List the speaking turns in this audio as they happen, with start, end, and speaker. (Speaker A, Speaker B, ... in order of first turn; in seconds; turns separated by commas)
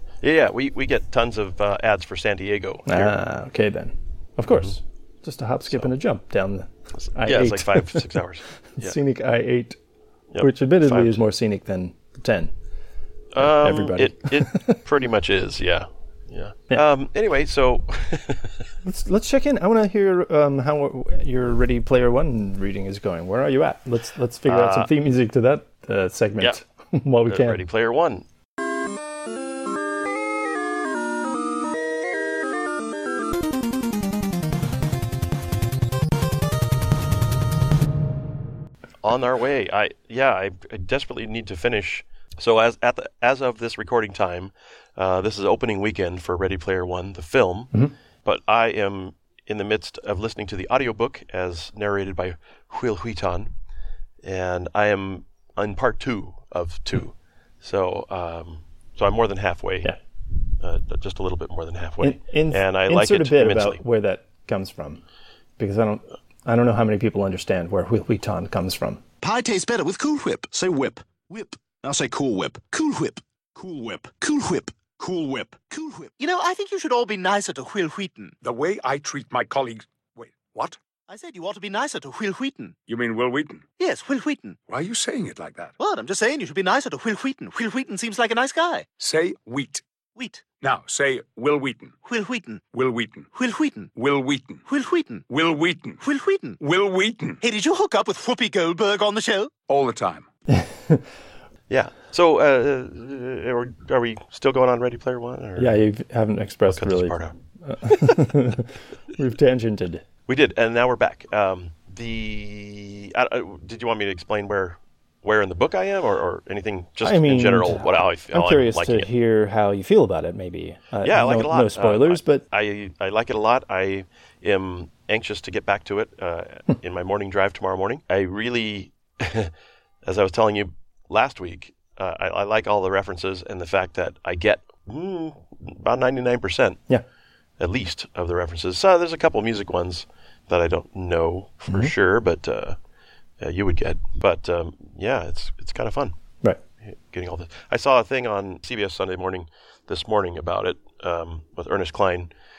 Speaker A: 0.2-3.1, Speaker B: 2.9-8.2, Speaker A: 7.0-9.0, Speaker B: 8.8-9.8, Speaker A: 10.3-11.2, Speaker B: 10.4-12.5, Speaker A: 13.3-18.7, Speaker B: 13.4-14.8, Speaker B: 18.8-27.6, Speaker A: 24.5-24.9, Speaker A: 27.3-28.3, Speaker A: 39.0-47.7, Speaker A: 48.2-53.5, Speaker A: 54.2-59.9, Speaker A: 60.6-63.8, Speaker B: 62.0-65.0, Speaker B: 65.6-69.0, Speaker C: 69.2-70.4, Speaker D: 70.3-76.1, Speaker C: 76.2-78.4, Speaker E: 78.4-80.8, Speaker C: 81.1-82.8, Speaker E: 82.9-83.7, Speaker C: 83.8-84.6, Speaker E: 84.7-85.7, Speaker C: 85.8-88.9, Speaker E: 89.0-89.8, Speaker C: 90.2-90.5, Speaker E: 90.6-92.0, Speaker C: 92.0-92.6, Speaker E: 92.7-93.3, Speaker C: 93.3-93.9, Speaker E: 94.0-94.6, Speaker C: 94.7-95.3, Speaker E: 95.3-96.0, Speaker C: 96.0-96.6, Speaker E: 96.6-97.4, Speaker C: 97.4-99.5, Speaker E: 99.7-100.3, Speaker B: 100.5-101.0, Speaker A: 101.7-105.8, Speaker B: 105.6-110.0, Speaker A: 106.7-107.3, Speaker A: 110.3-119.1, Speaker B: 117.0-122.5, Speaker A: 121.0-129.5, Speaker A: 130.0-136.8, Speaker A: 137.6-142.8, Speaker A: 143.4-146.1, Speaker A: 146.8-152.3